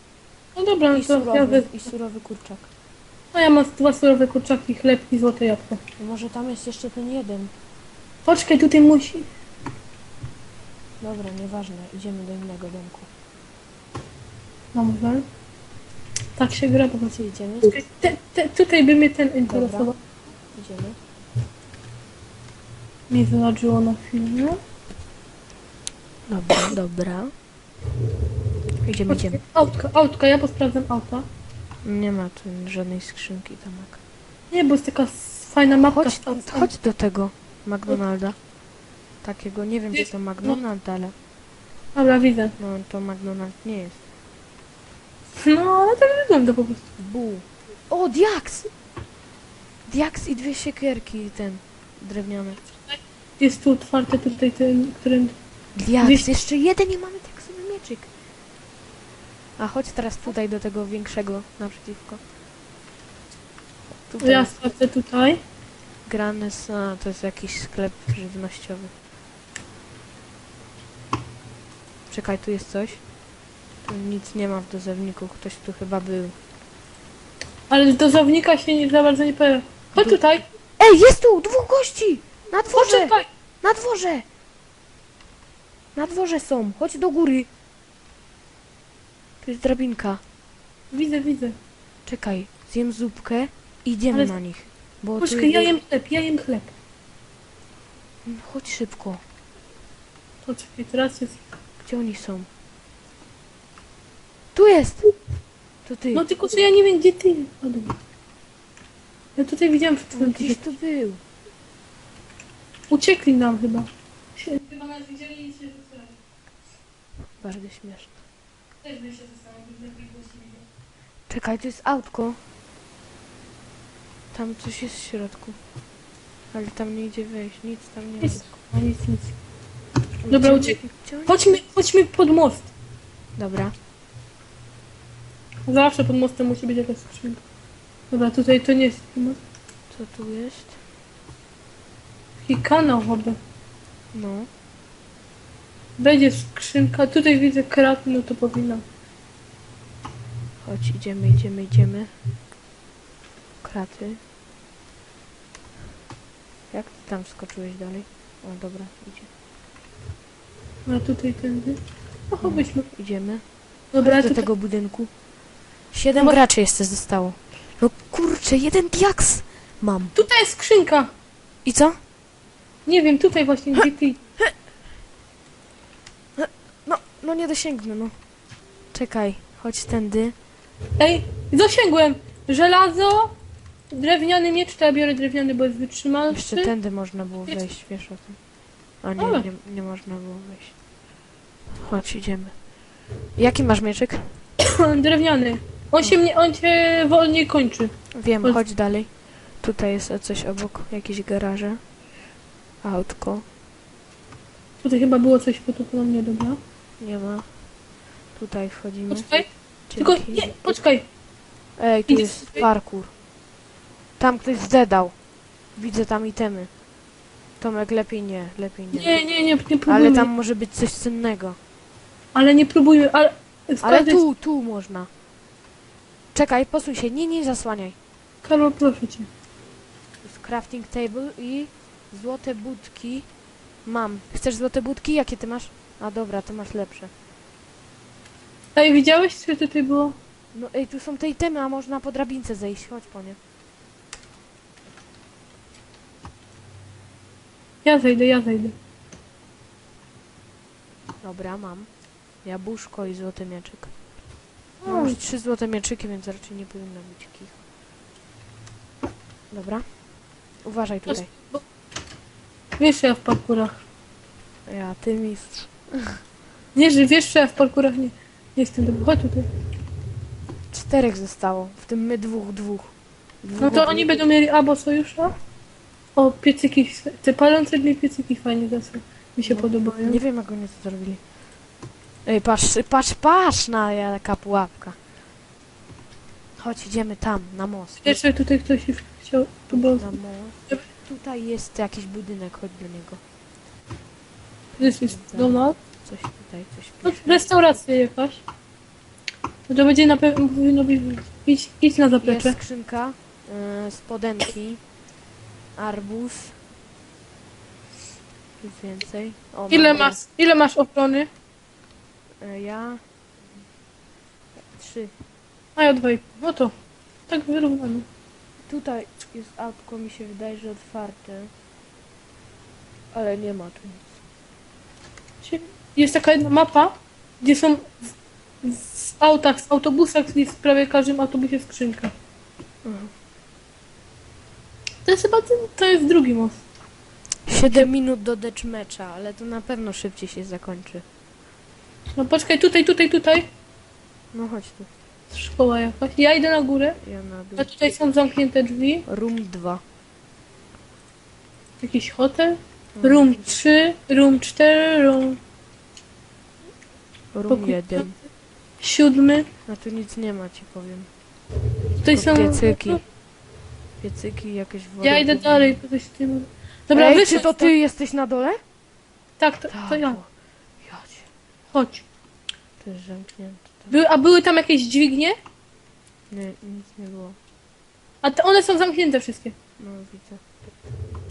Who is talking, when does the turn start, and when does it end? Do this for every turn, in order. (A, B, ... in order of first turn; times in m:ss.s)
0:00.6-0:01.8 A
0:00.9-0:02.7 B
0:03.3-0:05.8 A
0:06.0-0:07.5 B
0:08.2-0:09.2 A
0:11.0-0:13.1 B
0:14.7-0:15.2 A
0:16.4-0:20.0 A
0:17.1-0:17.8 B
0:19.5-0:19.9 B
0:20.5-0:21.0 B
0:23.1-0:24.6 A
0:26.3-0:27.3 B
0:28.8-0:29.4 B
0:29.1-0:31.2 A
0:31.8-0:34.0 B
0:34.5-0:36.7 A
0:35.7-0:38.4 B
0:39.2-0:41.1 B
0:39.9-0:40.6 A
0:41.9-0:42.5 A
0:42.6-0:44.0 B
0:45.4-0:46.8 A
0:47.0-0:48.7 B
0:49.9-0:52.6 B
0:53.4-0:55.3 A
0:55.8-0:58.1 B
0:56.0-0:56.3 A
0:59.6-1:02.2 B
1:04.1-1:04.5 B
1:04.2-1:05.4 A
1:06.1-1:08.9 B
1:12.1-1:13.0 B
1:13.8-1:16.3 B
1:17.7-1:20.4 A
1:20.8-1:24.2 B
1:22.6-1:23.2 A
1:25.9-1:27.5 B
1:29.4-1:30.2 B
1:30.9-1:31.6 A
1:32.0-1:35.7 B
1:35.2-1:36.7 A
1:38.2-1:39.2 B
1:40.4-1:41.4 A
1:41.8-1:42.5 B
1:44.5-1:45.1 B
1:45.8-1:46.3 B
1:46.1-1:48.0 A
1:49.4-1:50.7 A
1:50.1-1:51.2 B
1:52.9-1:56.1 A
1:57.4-1:58.2 B
1:58.8-2:00.6 A
2:01.3-2:02.4 B
2:04.3-2:05.6 B
2:06.5-2:08.4 B
2:08.2-2:09.3 A
2:10.2-2:11.6 B
2:10.3-2:12.7 A
2:13.4-2:13.7 B
2:15.7-2:17.4 A
2:18.1-2:19.4 A
2:19.9-2:20.8 B
2:22.4-2:23.4 A
2:24.1-2:24.5 B
2:26.0-2:28.8 A
2:30.6-2:32.1 B
2:33.6-2:34.2 B
2:36.7-2:39.3 B
2:40.8-2:41.8 A
2:42.3-2:42.9 A
2:42.4-2:43.4 B
2:43.9-2:44.4 A
2:44.0-2:45.1 B
2:45.9-2:50.2 B
2:46.1-2:46.4 A
2:50.1-2:51.1 A
2:51.6-2:52.0 B
2:52.8-2:54.2 A
2:56.4-2:58.1 B
2:58.9-3:00.3 B
3:01.0-3:03.3 A
3:03.9-3:06.7 A
3:06.3-3:08.4 B
3:09.0-3:10.7 B
3:09.2-3:09.5 A
3:11.7-3:12.5 B
3:13.4-3:14.4 B
3:14.8-3:18.6 A
3:18.1-3:21.8 B
3:22.8-3:23.4 B
3:24.8-3:26.6 A
3:27.0-3:27.5 B
3:28.3-3:30.5 B
3:29.1-3:29.5 A
3:30.0-3:31.0 A
3:31.8-3:33.1 B
3:32.1-3:32.6 A
3:34.2-3:35.1 B
3:35.8-3:36.7 B
3:37.6-3:39.2 B
3:38.9-3:40.3 A
3:39.9-3:41.6 B
3:42.3-3:44.2 A
3:43.8-3:45.1 B
3:46.3-3:48.0 B
3:48.4-3:49.3 A
3:50.2-3:53.3 B
3:53.8-3:57.1 B
3:58.7-4:00.1 A
4:00.5-4:03.4 B
4:07.8-4:08.7 A
4:11.2-4:11.9 B
4:12.4-4:13.9 B
4:14.8-4:15.2 A
4:14.9-4:17.6 B
4:19.5-4:19.9 B
4:20.6-4:21.3 B
4:21.1-4:21.6 A
4:22.8-4:23.8 A
4:24.7-4:26.2 B
4:26.7-4:29.5 A
4:30.7-4:34.2 B
4:33.6-4:35.3 A
4:36.2-4:40.2 A
4:39.4-4:41.2 B
4:42.2-4:45.0 B
4:46.6-4:48.2 B
4:48.0-4:50.1 A
4:49.7-4:53.2 B
4:54.7-4:57.6 B
4:54.8-4:55.8 A
4:57.0-4:58.4 A
4:59.7-5:02.6 A
5:02.2-5:04.8 B
5:05.8-5:06.6 B
5:08.6-5:10.2 B
5:09.7-5:11.3 A
5:12.4-5:13.0 B
5:14.7-5:15.1 B
5:15.8-5:16.7 A
5:17.3-5:18.0 A
5:18.7-5:21.5 B
5:23.1-5:24.1 B
5:25.4-5:28.1 A
5:28.6-5:32.1 A
5:32.8-5:33.1 B
5:35.0-5:36.6 A
5:37.5-5:41.0 B
5:37.6-5:37.9 A
5:42.2-5:43.5 A
5:44.3-5:44.9 B
5:45.3-5:47.0 A
5:47.0-5:47.7 B
5:47.6-5:49.0 A
5:49.0-5:49.8 B
5:51.8-5:55.4 A
5:53.0-5:53.5 B
5:57.3-5:58.2 B
5:57.5-5:58.1 A
5:58.8-5:59.5 A
5:59.7-6:01.1 B
6:02.0-6:03.0 A
6:02.1-6:03.0 B
6:04.0-6:05.8 B
6:05.0-6:07.7 A
6:06.9-6:08.6 B
6:09.4-6:10.2 A
6:09.7-6:10.3 B
6:10.8-6:11.3 B
6:11.7-6:12.0 A
6:12.8-6:13.9 B
6:13.9-6:15.4 A
6:16.3-6:17.4 B
6:18.2-6:19.5 A
6:19.8-6:20.4 B